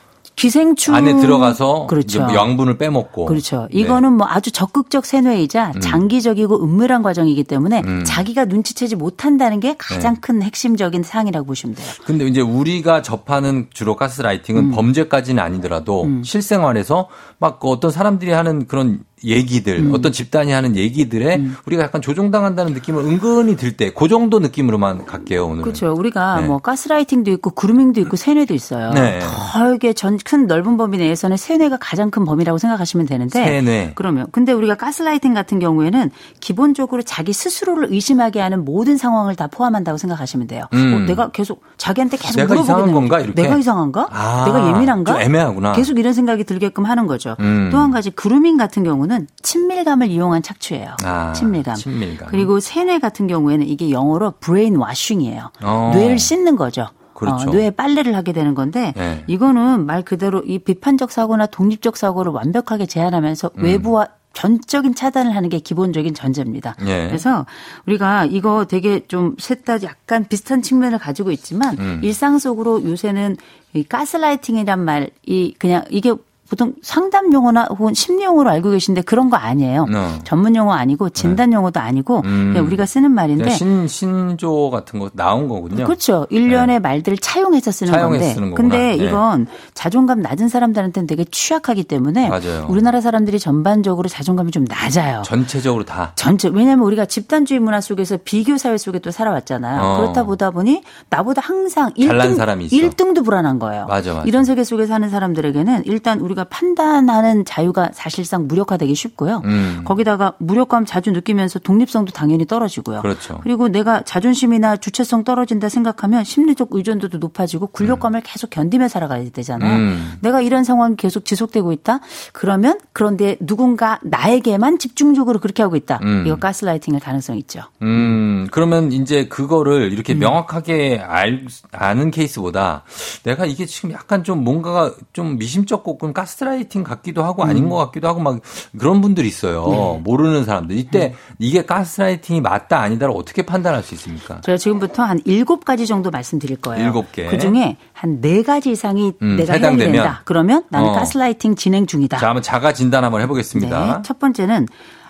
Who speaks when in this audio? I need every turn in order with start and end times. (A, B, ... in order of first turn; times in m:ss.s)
0:00.4-0:02.5 A
0:00.9-0:04.0 B
0:03.2-0:12.0 A
0:05.8-0:06.1 B
0:07.8-0:08.3 B
0:09.9-0:10.2 B
0:12.0-0:25.8 B
0:14.6-0:14.9 A
0:16.0-0:16.3 A
0:19.8-0:20.1 A
0:25.6-1:23.6 A
0:28.9-0:29.5 B
0:33.3-0:34.0 B
0:40.7-0:41.3 B
0:42.2-0:45.9 B
0:47.4-0:48.0 B
0:51.0-0:52.5 B
0:55.6-0:56.3 B
0:57.2-0:57.6 B
0:59.0-0:59.3 B
1:03.6-1:03.9 B
1:06.8-1:07.2 B
1:11.8-1:12.1 B
1:19.9-1:20.3 B
1:22.2-1:26.0 B
1:25.7-1:35.3 A
1:26.5-1:26.7 B
1:27.9-1:29.2 B
1:32.2-1:32.9 B
1:35.2-1:36.1 B
1:36.2-2:08.2 A
1:39.8-1:40.4 B
1:42.0-1:43.0 B
1:43.9-1:44.5 B
1:49.4-1:49.9 B
1:53.0-1:53.5 B
1:59.6-2:00.2 B
2:06.0-2:06.5 B
2:07.8-2:24.5 B
2:10.1-2:10.4 A
2:17.4-2:17.8 A
2:19.7-2:20.0 A
2:24.4-2:32.3 A
2:26.7-2:27.6 B
2:29.2-2:30.2 B
2:30.7-2:31.2 B
2:32.2-2:34.1 B
2:33.5-2:34.7 A